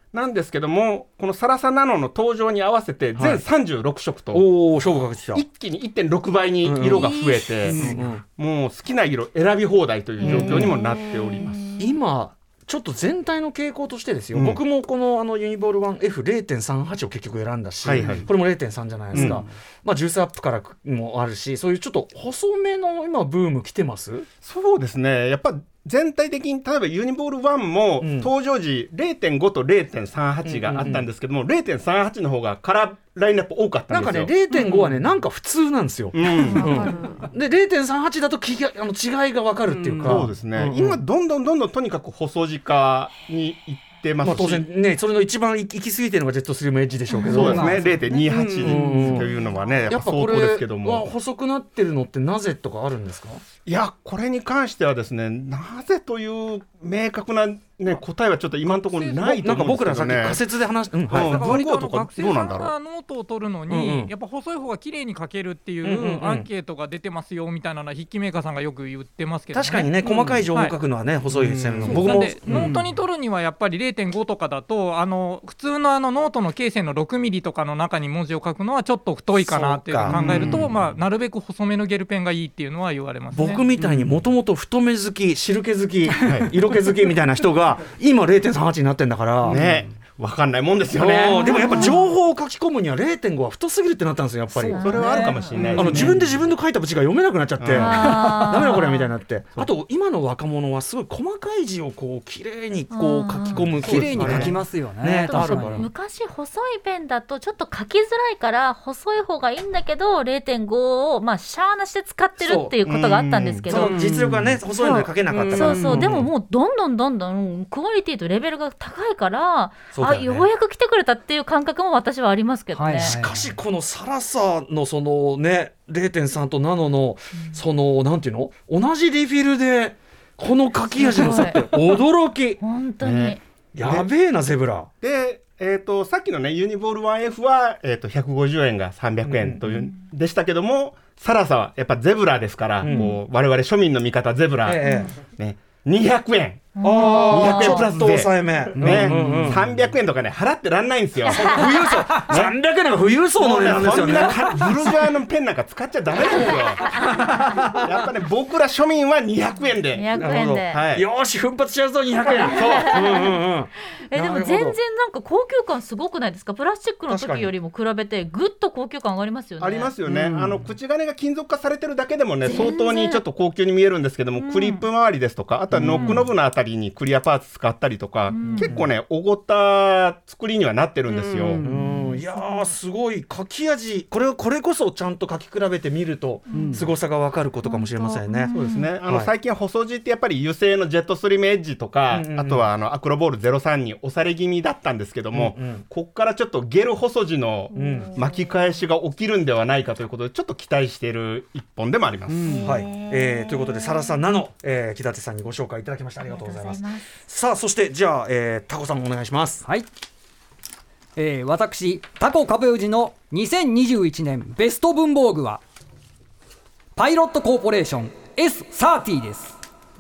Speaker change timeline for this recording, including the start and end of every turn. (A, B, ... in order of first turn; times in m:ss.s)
0:00.1-0:04.5 A
0:03.2-0:03.4 B
0:04.3-0:05.4 B
0:05.3-0:11.6 A
0:06.6-0:07.1 B
0:06.8-0:07.6 C
0:07.7-0:08.0 D
0:07.7-0:08.2 B
0:10.2-0:11.9 C
0:10.2-0:10.8 B
0:11.8-0:24.3 B
0:14.3-0:14.6 A
0:17.8-0:18.3 A
0:19.1-0:19.5 D
0:19.1-0:19.4 A
0:24.4-0:34.3 A
0:28.0-0:28.3 B
0:30.4-0:31.1 B
0:33.9-0:41.0 B
0:36.2-0:36.9 A
0:36.3-0:37.3 C
0:39.7-0:40.3 D
0:40.0-0:44.6 A
0:44.2-0:47.9 B
0:47.2-0:49.3 D
0:47.3-0:51.0 A
0:48.6-0:49.3 B
0:49.9-0:53.4 B
0:53.7-1:00.4 A
0:58.9-0:59.5 E
0:59.3-1:01.6 B
1:01.1-1:02.7 A
1:01.1-1:09.9 E
1:03.7-1:04.1 B
1:05.8-1:06.5 B
1:09.5-1:12.7 B
1:10.0-1:10.4 D
1:11.4-1:12.9 D
1:11.8-1:23.6 E
1:19.4-1:20.7 B
1:20.1-1:20.7 A
1:23.3-1:29.6 B
1:23.8-1:24.2 D
1:26.2-1:26.5 A
1:29.5-1:31.9 A
1:29.5-1:29.8 D
1:30.9-1:35.0 B
1:31.3-1:32.1 C
1:34.6-1:36.0 C
1:34.7-1:36.4 A
1:35.0-1:36.2 D
1:35.7-1:45.9 B
1:37.6-1:38.1 A
1:37.8-1:39.1 C
1:42.9-1:43.7 C
1:43.8-1:44.6 A
1:43.8-1:45.9 D
1:45.2-1:54.2 C
1:52.4-1:52.8 B
1:52.8-1:53.7 A
1:53.7-1:56.3 B
1:53.8-1:56.1 D
1:54.8-2:03.2 C
1:59.9-2:00.5 B
2:02.7-2:03.6 D
2:03.0-2:12.6 B
2:10.9-2:11.8 C
2:12.6-2:13.4 C
2:13.0-2:14.1 A
2:13.8-2:14.9 B
2:15.0-2:32.6 A
2:19.2-2:19.6 B
2:22.8-2:23.1 B
2:22.9-2:23.1 C
2:24.6-2:25.1 B
2:24.8-2:25.1 C
2:26.8-2:27.9 C
2:26.8-2:29.6 B
2:28.9-2:29.6 D
2:31.3-2:35.0 B
2:33.4-2:40.1 A
2:36.3-2:37.7 B
2:36.3-2:36.9 C
2:39.9-2:40.8 C
2:40.1-2:44.8 B
2:40.7-2:41.0 A
2:42.4-2:43.4 C
2:42.6-2:42.9 A
2:44.0-2:49.9 C
2:47.1-2:47.5 B
2:49.6-3:01.6 A
2:50.1-2:50.6 D
2:52.4-2:53.2 C
2:54.4-2:54.8 C
2:55.7-2:56.3 B
2:56.0-2:56.2 D
2:58.3-2:58.8 C
2:58.5-2:58.9 B
3:01.1-3:02.0 D
3:01.6-3:08.5 B
3:01.9-3:02.7 C
3:06.5-3:06.8 C
3:06.5-3:06.9 D
3:07.6-3:08.9 C
3:08.5-3:22.6 A
3:09.0-3:09.3 B
3:12.1-3:12.7 B
3:15.3-3:15.8 B
3:17.7-3:18.4 C
3:17.7-3:18.2 B
3:22.3-3:22.7 D
3:22.4-3:24.2 C
3:22.6-3:29.6 B
3:26.2-3:27.1 C
3:31.2-3:35.6 D
3:37.0-3:39.6 D